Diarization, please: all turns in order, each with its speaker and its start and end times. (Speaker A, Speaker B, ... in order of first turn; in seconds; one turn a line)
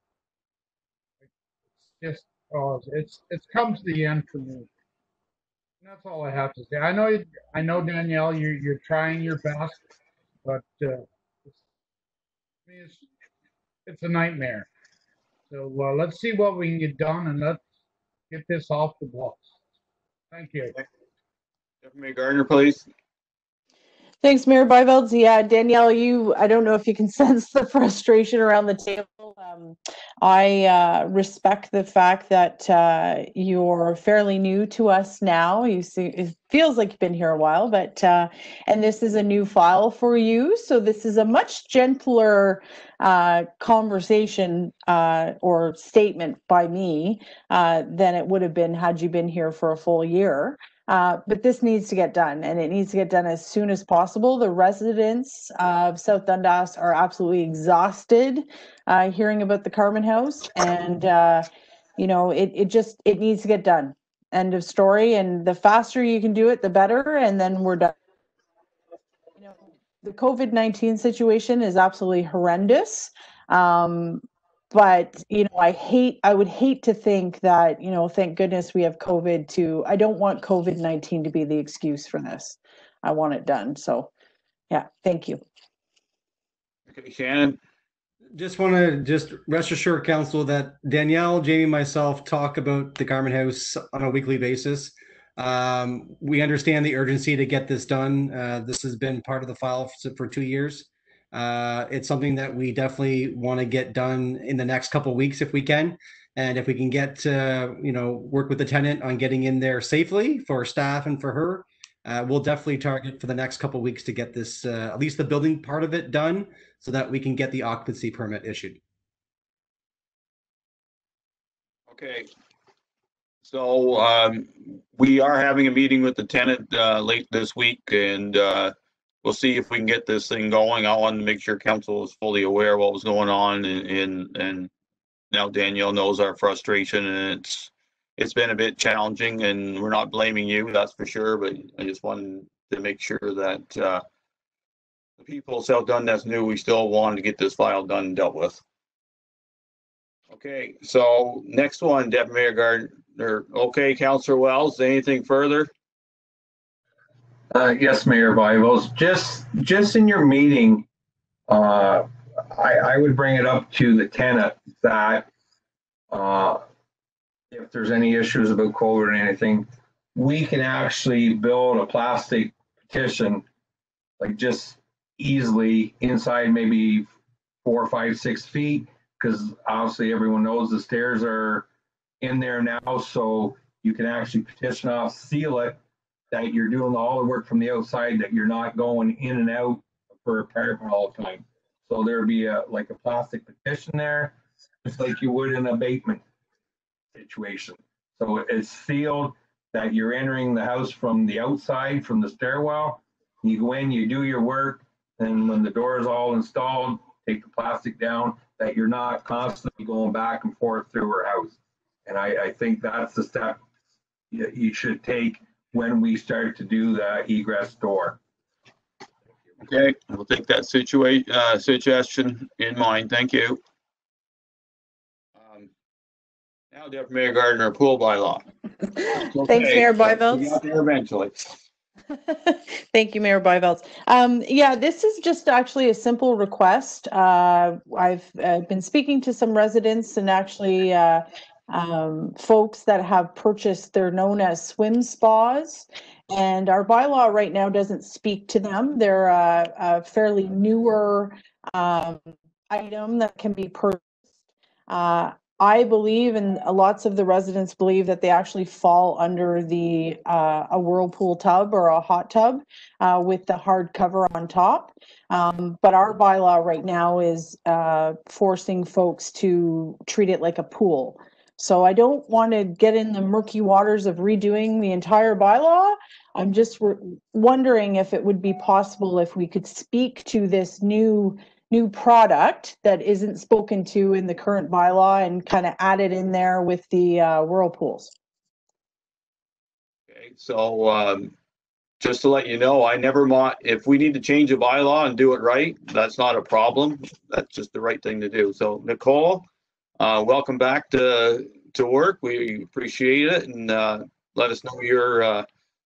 Speaker A: 1.9-4.7
Speaker A: 5.8-9.8
Speaker A: 10.4-11.5
Speaker A: 12.7-13.1
Speaker A: 13.8-14.7
Speaker A: 15.5-17.6
Speaker A: 18.3-19.5
Speaker A: 20.3-20.7
Speaker B: 21.8-22.9
Speaker C: 24.2-61.5
Speaker C: 62.0-67.9
Speaker C: 69.4-84.1
Speaker C: 84.7-85.4
Speaker B: 86.9-87.6
Speaker D: 88.3-118.8
Speaker B: 121.9-122.3
Speaker B: 123.4-134.7
Speaker B: 135.3-144.0
Speaker B: 145.2-148.6
Speaker B: 150.3-155.7
Speaker E: 157.5-160.8
Speaker E: 161.5-165.3
Speaker E: 166.1-166.6
Speaker E: 167.5-173.4
Speaker E: 174.2-177.1
Speaker E: 177.6-181.7
Speaker E: 182.2-185.8
Speaker E: 186.3-196.2
Speaker E: 197.1-213.6
Speaker E: 214.3-218.2
Speaker B: 219.6-223.6
Speaker B: 225.3-225.7
Speaker B: 226.7-228.4
Speaker C: 229.0-230.6
Speaker B: 229.2-231.4
Speaker C: 232.1-254.0
Speaker C: 254.9-288.1
Speaker B: 290.1-291.3
Speaker B: 292.0-299.4
Speaker B: 300.0-305.4